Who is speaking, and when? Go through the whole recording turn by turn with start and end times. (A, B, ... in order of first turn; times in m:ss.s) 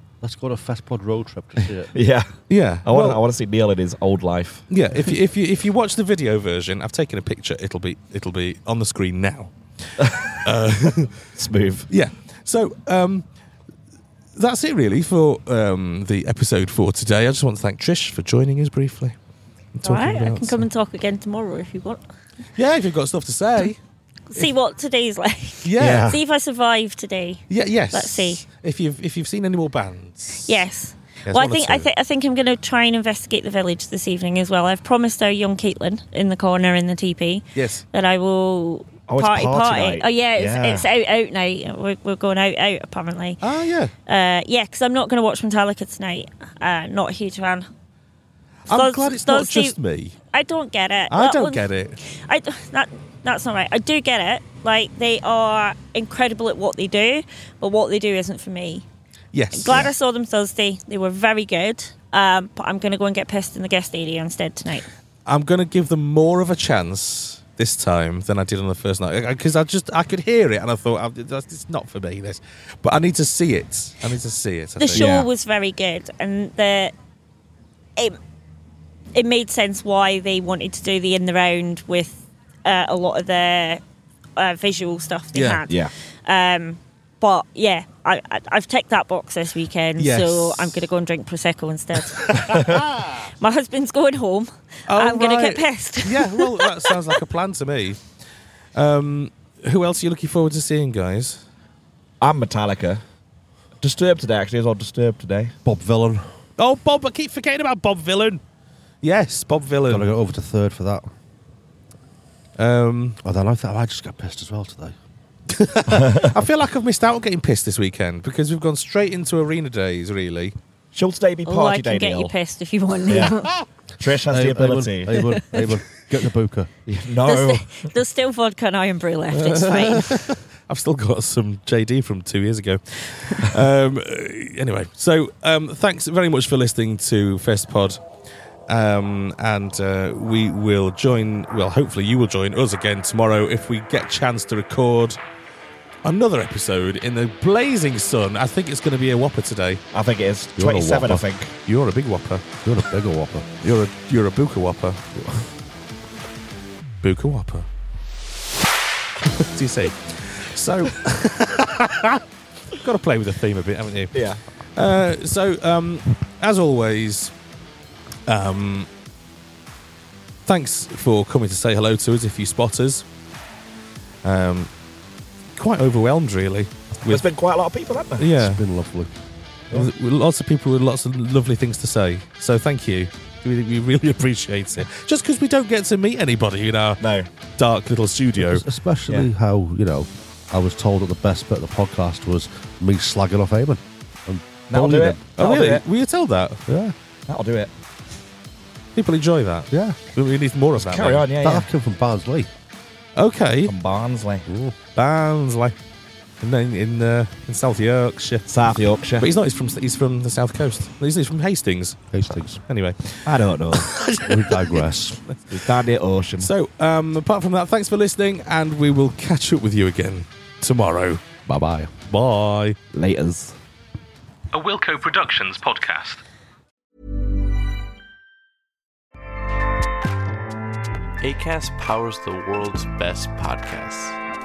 0:00.2-0:01.9 A
0:01.9-0:02.3 B
0:02.5-0:03.2 C
0:02.8-0:04.6 B
0:04.7-0:09.5 C
0:10.0-0:10.5 B
0:10.4-0:11.3 C
0:11.3-0:11.9 B
0:11.9-0:13.2 C
0:14.4-0:19.1 C
0:19.8-0:20.7 C
0:19.8-0:22.0 D
0:22.6-0:23.8 C
0:24.3-0:28.4 D
0:25.6-0:26.1 C
0:25.8-0:26.2 B
0:27.5-0:30.6 C
0:30.4-0:43.4 D
0:31.2-0:31.9 C
0:37.5-0:37.8 C
0:39.1-0:40.8 B
0:43.4-0:43.9 C
0:44.1-0:47.7 D
0:48.7-0:49.8 D
0:48.7-0:50.2 C
0:50.3-0:58.8 D
0:51.1-0:52.0 C
0:59.3-0:59.9 C
0:59.5-1:04.8 D
1:05.2-1:15.1 C
1:14.8-1:16.9 D
1:14.9-1:15.3 B
1:19.1-1:23.8 D
1:24.4-1:32.7 D
1:25.3-1:25.6 C
1:30.0-1:30.8 C
1:32.1-1:32.4 C
1:32.4-1:32.7 B
1:33.4-1:37.2 D
1:34.9-1:38.0 C
1:38.7-1:41.4 C
1:42.2-1:43.0 B
1:43.8-1:45.5 B
1:45.6-1:46.2 A
1:46.6-1:48.4 C
1:49.0-1:50.1 C
1:49.9-1:51.0 A
1:52.6-1:53.2 C
1:53.2-1:54.9 A
1:55.5-2:00.5 C
1:55.9-1:56.3 B
2:00.9-2:02.3 B
2:01.4-2:03.5 D
2:03.1-2:03.3 B
2:04.0-2:05.3 B
2:04.3-2:06.7 A
2:06.9-2:07.7 B
2:07.2-2:10.3 D
2:09.3-2:18.0 C
2:18.7-2:25.2 C
2:26.0-2:29.8 C
2:29.9-2:31.5 B
2:30.6-2:31.2 A
2:31.7-2:32.5 C
2:32.6-2:33.5 A
2:33.6-2:35.0 C
2:35.1-2:35.4 A
2:37.0-2:37.7 C
2:39.4-2:44.2 C
2:44.1-2:44.4 B
2:44.8-2:47.3 C
2:48.3-2:48.9 C
2:50.4-2:53.0 C
2:54.2-2:54.7 C
2:55.6-2:57.2 C
2:57.0-2:58.3 B
2:58.2-2:58.6 C
2:58.3-2:59.1 A
2:59.7-3:07.0 C
3:07.0-3:07.3 B
3:07.6-3:08.6 C
3:08.4-3:15.3 A
3:14.7-3:15.8 B
3:15.4-3:16.9 C
3:17.3-3:17.7 B
3:19.0-3:21.3 C
3:19.7-3:20.0 A
3:20.8-3:21.7 B
3:21.4-3:22.5 A
3:23.2-3:23.7 C
3:23.6-3:24.5 B
3:24.5-3:24.7 A
3:24.9-3:25.7 C
3:26.4-3:28.5 C
3:28.5-3:29.3 B
3:29.2-3:35.4 C
3:32.1-3:32.6 A
3:33.2-3:33.9 B
3:34.2-3:35.2 A
3:35.5-3:36.5 B
3:36.4-3:41.2 C
3:41.5-3:42.0 A
3:42.0-3:42.8 C
3:42.9-3:43.6 B
3:44.5-3:46.2 C
3:51.2-3:54.2 E